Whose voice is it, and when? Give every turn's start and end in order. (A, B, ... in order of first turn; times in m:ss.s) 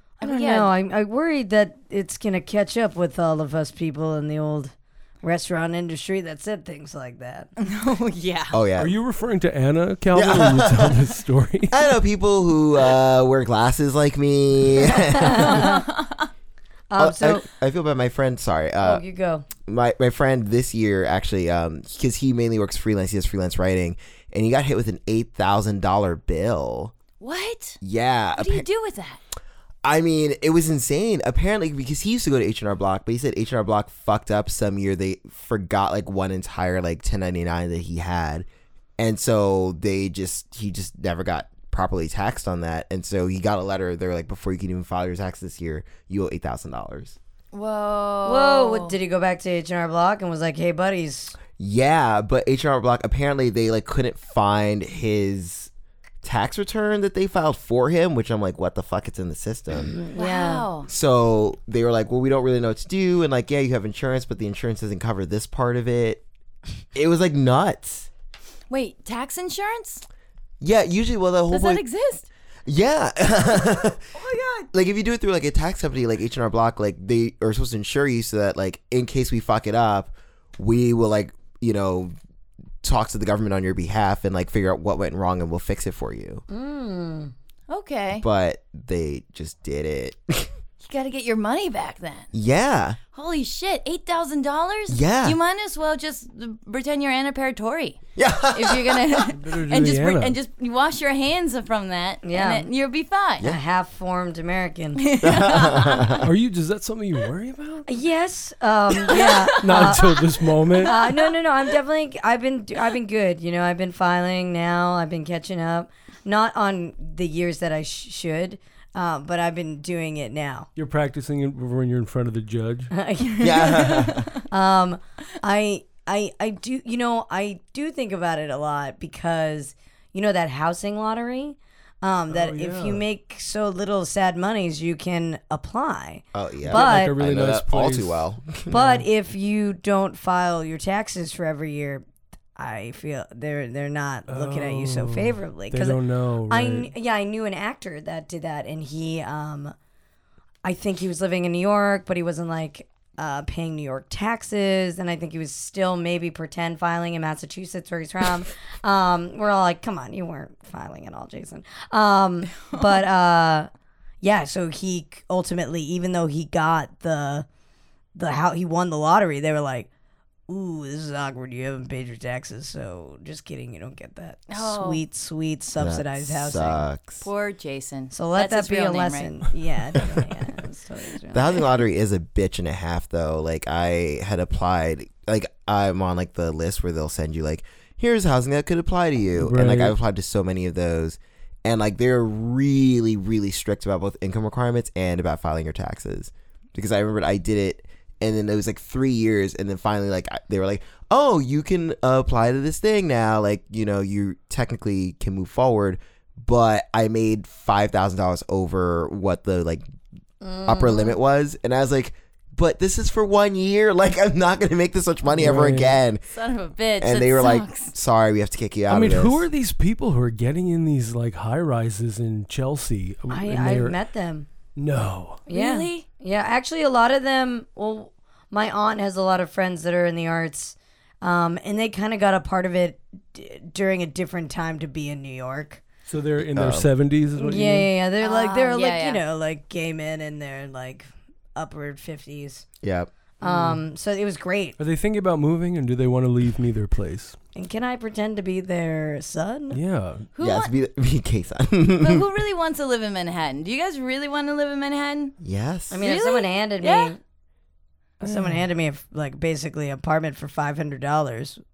0:00.2-0:00.7 A
0:00.2-0:07.5 B
0:07.6-0:08.6 A
0:08.5-0:08.9 C
0:08.8-0:11.8 D
0:10.1-0:11.0 C
0:11.7-0:15.8 C
0:14.9-0:15.8 B
0:15.2-0:16.3 A
0:16.9-0:17.4 B
0:17.0-0:19.0 C
0:18.8-0:19.5 B
0:19.6-0:26.9 C
0:27.2-0:27.8 A
0:27.8-0:28.7 C
0:28.4-0:29.2 A
0:29.8-0:38.5 C
0:39.0-0:47.2 C
0:47.5-0:49.0 A
0:48.2-0:51.4 B
0:51.6-0:55.7 C
0:56.2-0:59.9 C
0:59.8-1:00.7 B
1:00.2-1:00.9 A
1:00.9-1:06.2 C
1:06.9-1:08.1 C
1:08.7-1:10.0 A
1:10.6-1:11.8 C
1:11.5-1:12.3 A
1:12.7-1:14.0 C
1:14.2-1:14.7 A
1:14.7-1:22.1 C
1:22.8-1:26.4 C
1:26.5-1:27.3 B
1:27.7-1:28.2 A
1:28.2-1:30.5 C
1:30.8-1:32.3 A
1:32.3-1:33.0 C
1:33.1-1:38.0 A
1:34.9-1:35.4 C
1:38.2-1:39.3 C
1:38.5-1:43.5 A
1:39.3-1:40.4 D
1:42.2-1:42.7 B
1:43.4-1:45.0 B
1:45.0-1:46.2 A
1:45.2-1:46.3 C
1:46.2-1:47.9 D
1:47.9-1:50.2 B
1:49.1-1:50.2 A
1:49.6-1:51.0 D
1:50.8-1:51.3 A
1:50.8-2:00.7 B
2:00.8-2:02.9 D
2:02.9-2:17.1 B
2:03.3-2:04.4 A
2:03.4-2:04.3 C
2:12.3-2:13.0 D
2:16.3-2:19.0 C
2:16.7-2:18.3 D
2:18.7-2:22.0 B
2:22.6-2:26.0 B
2:24.3-2:26.9 D
2:26.5-2:29.8 B
2:30.6-2:43.7 B
2:44.2-2:47.4 B
2:48.2-2:49.9 B
2:50.5-2:56.8 B
2:54.5-2:55.0 A
2:55.8-2:57.2 C
2:57.2-2:59.3 A
2:58.1-3:01.6 B
3:01.3-3:29.8 C
3:09.4-3:09.9 D
3:30.4-3:31.2 B
3:30.6-3:36.2 C
3:35.3-3:36.0 D
3:36.3-3:37.9 A
3:37.0-3:39.5 C
3:38.9-3:44.0 D
3:43.3-3:44.5 B
3:44.8-3:45.4 D
3:45.5-3:55.8 B
3:45.5-3:46.1 A
3:56.1-3:57.9 D
3:56.5-3:56.9 C
3:57.4-4:02.6 B
3:58.2-3:59.2 A
4:02.8-4:03.1 C
4:03.4-4:04.8 B
4:03.4-4:03.8 D
4:04.8-4:07.4 D
4:07.6-4:09.8 B
4:09.7-4:10.3 D
4:10.3-4:10.7 A
4:10.4-4:12.2 C
4:12.0-4:15.3 A
4:15.4-4:16.0 C
4:15.9-4:17.2 B
4:16.0-4:17.1 A
4:18.2-4:18.6 D
4:18.2-4:21.6 B